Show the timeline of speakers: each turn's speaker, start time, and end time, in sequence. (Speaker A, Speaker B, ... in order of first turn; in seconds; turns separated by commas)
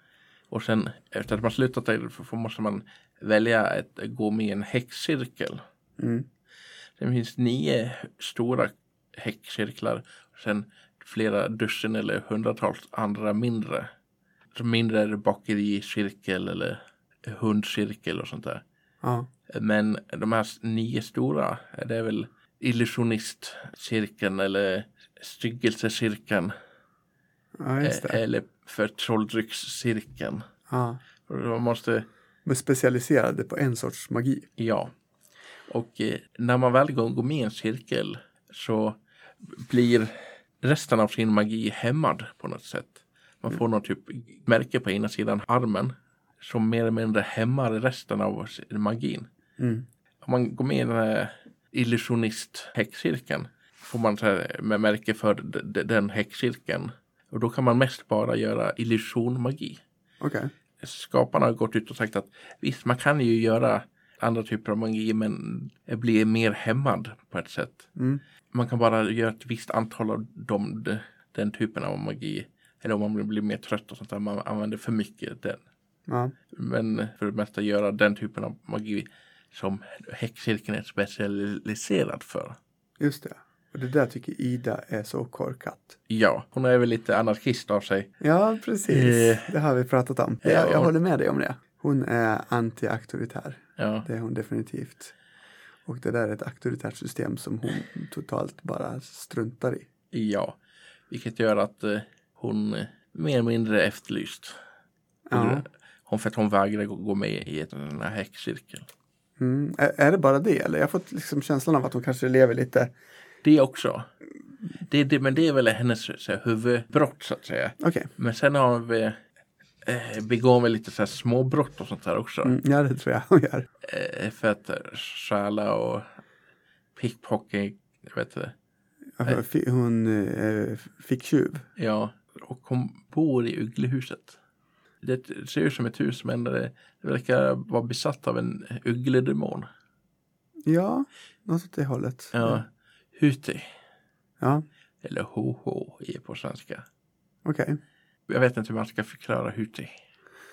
Speaker A: 0.5-5.6, Speaker B: 6.0-6.2, Speaker A: 7.0-13.9, Speaker A: 14.5-18.6, Speaker B: 19.0-19.3, Speaker A: 19.5-26.5, Speaker B: 27.6-28.2, Speaker A: 27.8-30.4, Speaker B: 30.7-31.0, Speaker A: 31.3-32.0, Speaker B: 32.4-34.5, Speaker A: 34.6-34.9, Speaker A: 35.7-49.3, Speaker B: 49.6-49.9, Speaker A: 50.2-59.8, Speaker B: 60.2-60.5, Speaker A: 60.8-67.9, Speaker B: 68.0-68.2, Speaker A: 68.5-75.6, Speaker B: 76.1-76.3, Speaker A: 76.5-82.6, Speaker B: 83.0-86.0, Speaker A: 86.1-88.1, Speaker B: 88.2-95.1, Speaker A: 88.9-89.5, Speaker A: 90.4-90.9, Speaker A: 93.8-94.0, Speaker B: 95.8-99.8, Speaker A: 100.1-100.6, Speaker A: 101.1-104.5, Speaker B: 105.3-105.6, Speaker A: 105.3-108.9, Speaker B: 109.4-112.9, Speaker A: 113.4-114.1, Speaker A: 114.8-119.2, Speaker B: 117.8-118.1, Speaker A: 119.8-122.5, Speaker B: 122.4-123.7, Speaker A: 123.8-126.1, Speaker A: 127.0-128.5, Speaker B: 129.2-131.7, Speaker A: 131.8-134.4, Speaker A: 135.0-139.7, Speaker B: 140.7-142.6, Speaker A: 142.3-143.7, Speaker B: 144.4-144.6, Speaker A: 145.0-146.8, Speaker B: 147.4-147.8, Speaker A: 148.3-149.9